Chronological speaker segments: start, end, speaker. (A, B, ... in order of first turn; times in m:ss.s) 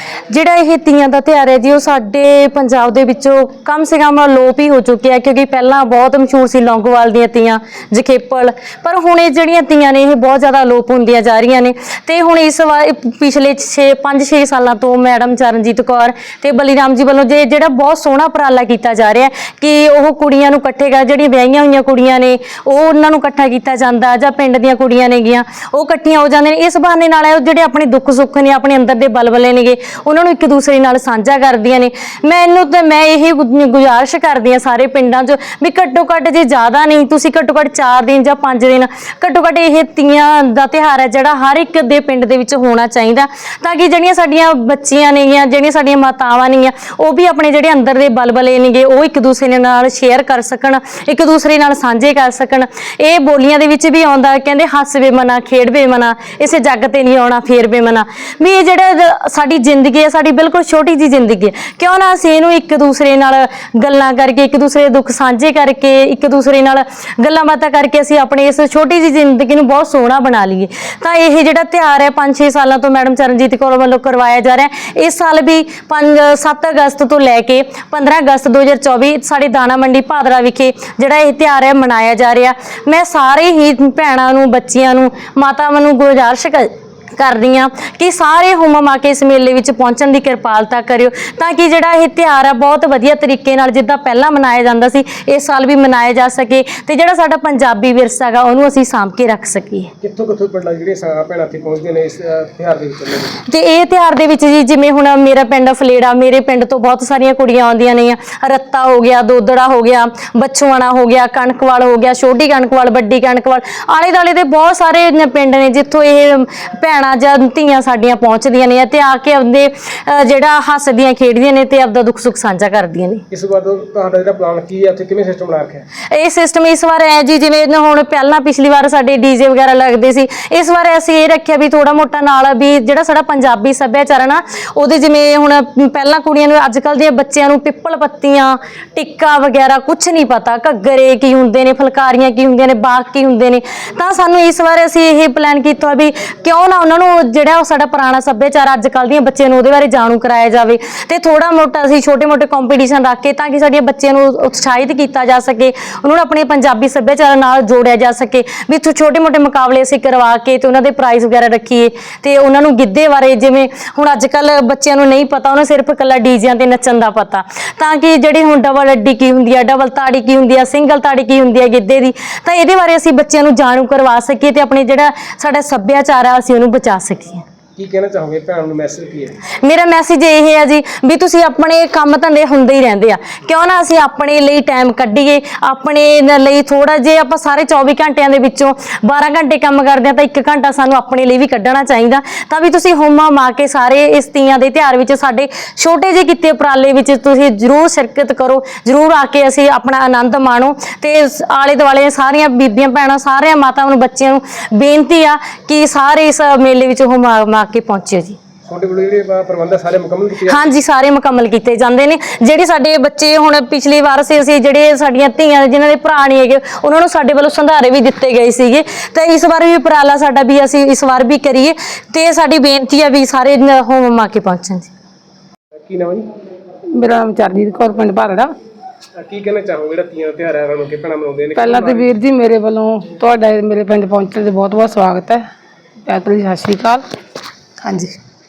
0:00.3-1:39.9 A
1:40.0-1:43.4 B
1:43.5-2:03.2 A
2:03.3-2:05.8 B
2:06.1-2:57.4 A
2:57.8-2:59.4 B
2:59.6-3:28.4 A
3:28.7-3:30.7 B
3:30.5-3:44.9 A
3:45.9-3:46.3 B
3:47.0-3:48.5 C
3:49.2-3:52.1 B
3:51.6-3:55.4 C
3:56.1-3:57.0 C
3:57.8-3:58.2 C